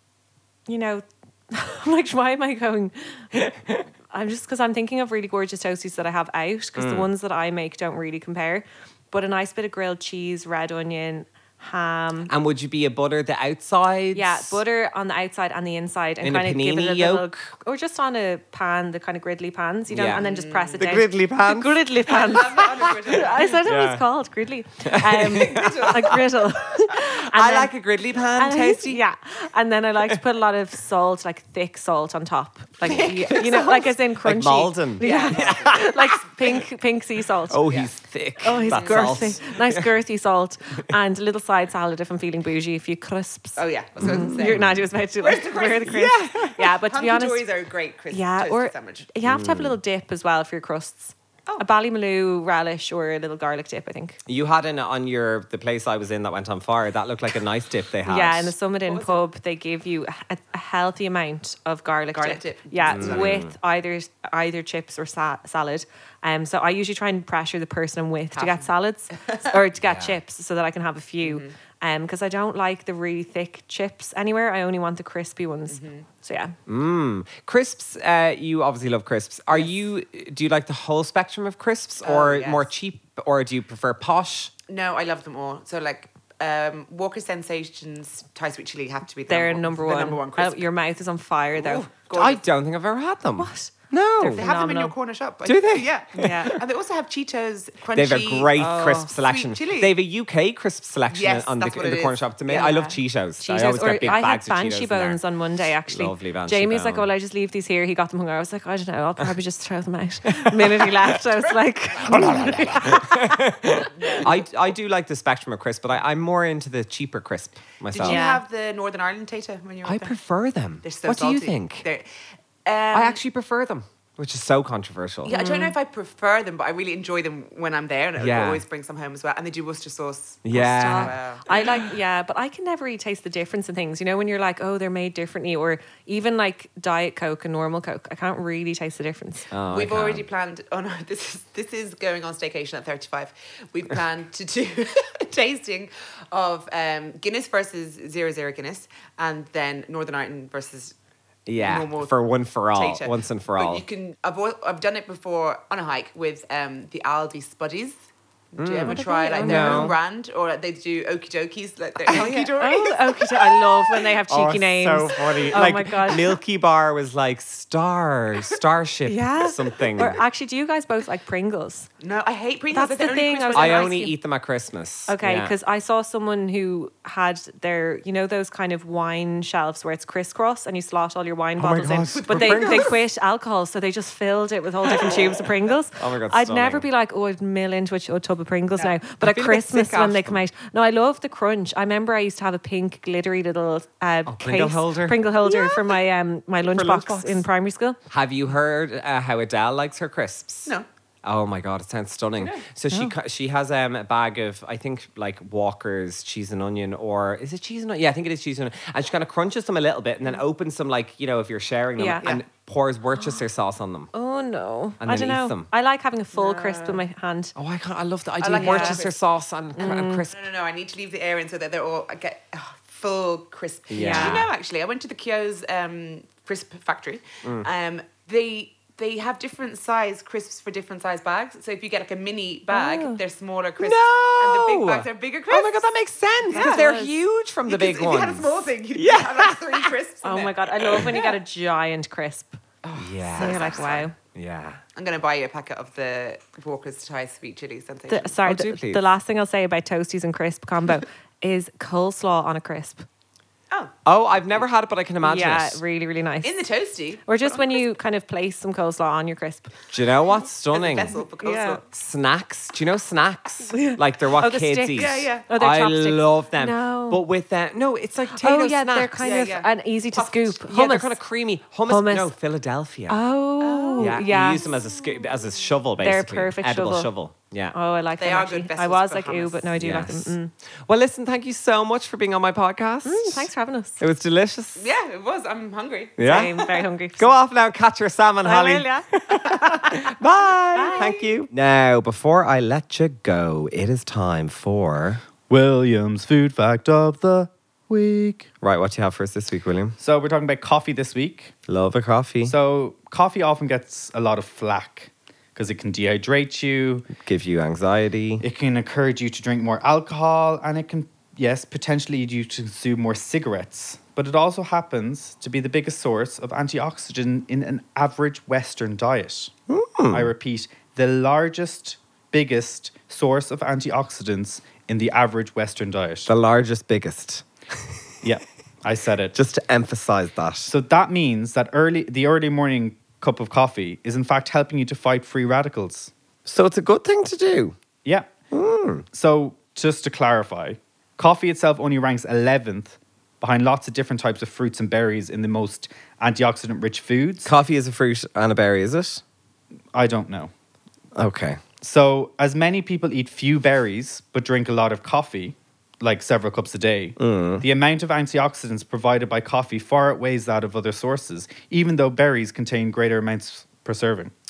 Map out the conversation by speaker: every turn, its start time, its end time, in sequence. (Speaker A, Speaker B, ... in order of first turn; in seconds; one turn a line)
Speaker A: 0.7-3.4
Speaker B: 3.3-3.9
Speaker A: 4.1-12.3
Speaker B: 6.8-7.1
Speaker B: 12.3-14.6
Speaker A: 14.1-27.7
Speaker B: 16.2-17.4
Speaker B: 19.9-20.2
Speaker C: 20.1-21.0
Speaker B: 20.8-21.8
Speaker C: 22.1-23.6
Speaker B: 23.4-24.0
Speaker B: 24.8-26.1
Speaker C: 25.3-26.4
Speaker B: 27.2-29.0
Speaker A: 28.4-37.8
Speaker C: 32.8-33.9
Speaker B: 34.2-36.2
Speaker C: 35.0-35.9
Speaker B: 37.5-39.9
Speaker A: 38.4-47.4
Speaker C: 38.7-39.4
Speaker C: 43.5-49.1
Speaker B: 44.0-44.8
Speaker B: 46.0-46.6
Speaker A: 48.1-54.2
Speaker B: 49.2-49.7
Speaker B: 54.3-58.5
Speaker A: 58.0-76.5
Speaker C: 58.9-59.2
Speaker C: 62.1-63.4
Speaker B: 62.9-63.5
Speaker C: 68.3-68.7
Speaker C: 69.2-69.5
Speaker B: 69.8-70.2
Speaker C: 71.2-71.5
Speaker C: 75.7-76.0
Speaker B: 76.7-84.5
Speaker C: 79.5-79.8
Speaker C: 82.0-82.7
Speaker C: 84.7-90.7
Speaker A: 89.3-91.9
Speaker C: 91.5-92.4
Speaker B: 92.1-94.5
Speaker A: 93.4-94.9
Speaker C: 94.3-99.9
Speaker B: 95.4-96.5
Speaker A: 96.2-96.6
Speaker B: 97.9-105.2
Speaker A: 98.6-99.1
Speaker C: 101.1-103.0
Speaker A: 103.4-113.4
Speaker B: 105.9-107.1
Speaker B: 110.2-111.2
Speaker B: 112.0-118.2
Speaker C: 113.9-114.4
Speaker C: 117.9-120.1
Speaker A: 118.0-118.4
Speaker B: 119.8-121.8
Speaker C: 120.8-122.1
Speaker C: 122.6-123.2
Speaker B: 122.9-125.3
Speaker C: 125.2-131.9
Speaker A: 125.3-125.7
Speaker B: 128.2-128.6
Speaker B: 130.4-131.1
Speaker A: 130.5-139.5
Speaker B: 139.5-140.2
Speaker C: 139.7-150.9
Speaker B: 151.4-153.8
Speaker C: 151.6-164.1
Speaker B: 158.6-159.9
Speaker A: 158.8-159.9
Speaker A: 162.1-166.4
Speaker B: 164.3-170.2
Speaker A: 169.1-171.9
Speaker C: 172.0-173.9
Speaker A: 172.7-174.1
Speaker B: 173.5-175.5
Speaker A: 175.1-198.0
Speaker B: 181.6-183.0
Speaker C: 182.1-183.0
Speaker C: 184.9-185.4
Speaker B: 185.9-186.8
Speaker B: 189.2-190.4
Speaker B: 194.2-195.9
Speaker B: 196.6-197.4
Speaker B: 198.1-214.1
Speaker A: 212.0-212.2
Speaker A: 214.1-217.5
Speaker B: 215.0-215.7
Speaker C: 216.3-217.0
Speaker B: 217.6-220.4
Speaker C: 218.4-219.1
Speaker A: 218.5-219.0
Speaker A: 219.8-220.2
Speaker C: 220.3-235.9
Speaker B: 223.9-224.4
Speaker A: 223.9-224.5
Speaker A: 232.7-233.2
Speaker B: 233.8-239.9
Speaker C: 236.5-236.9
Speaker A: 236.5-237.2
Speaker C: 237.7-241.3
Speaker A: 240.2-242.6
Speaker C: 242.8-244.1
Speaker B: 242.9-244.8
Speaker A: 243.3-244.1
Speaker C: 244.9-248.4
Speaker A: 248.1-253.1
Speaker B: 248.4-249.0
Speaker C: 253.7-254.6
Speaker B: 254.1-255.8
Speaker A: 255.2-256.6
Speaker C: 256.4-257.9
Speaker A: 257.2-259.7
Speaker B: 259.9-261.1
Speaker C: 260.7-261.8
Speaker A: 261.4-261.8
Speaker B: 261.9-269.1
Speaker A: 263.7-267.2
Speaker C: 264.9-265.5
Speaker A: 268.3-271.2
Speaker C: 269.2-270.6
Speaker B: 270.7-273.2
Speaker A: 271.9-272.3
Speaker A: 273.1-274.7
Speaker C: 273.6-275.3
Speaker B: 274.0-277.7
Speaker A: 276.0-277.1
Speaker A: 277.7-280.5
Speaker C: 278.2-279.7
Speaker B: 279.8-280.3
Speaker B: 280.9-283.5
Speaker A: 283.0-284.0
Speaker B: 284.0-284.9
Speaker C: 284.8-286.9
Speaker B: 286.2-286.5
Speaker A: 286.2-287.3
Speaker B: 287.2-295.2
Speaker A: 288.4-290.1
Speaker A: 290.8-291.2
Speaker D: 295.5-298.5
Speaker B: 298.6-300.0
Speaker D: 300.0-301.5
Speaker B: 301.7-302.5
Speaker D: 302.4-307.1
Speaker B: 307.2-308.4
Speaker D: 308.4-319.5
Speaker B: 319.7-320.3
Speaker D: 320.1-326.3
Speaker B: 326.3-327.9
Speaker D: 328.2-329.4
Speaker B: 329.3-330.7
Speaker D: 330.7-336.1
Speaker B: 336.4-337.7
Speaker D: 338.0-338.3
Speaker B: 338.5-339.1
Speaker D: 339.1-347.5
Speaker B: 347.4-349.2
Speaker D: 349.9-350.5
Speaker B: 351.1-351.6
Speaker D: 351.8-364.3
Speaker B: 357.2-357.6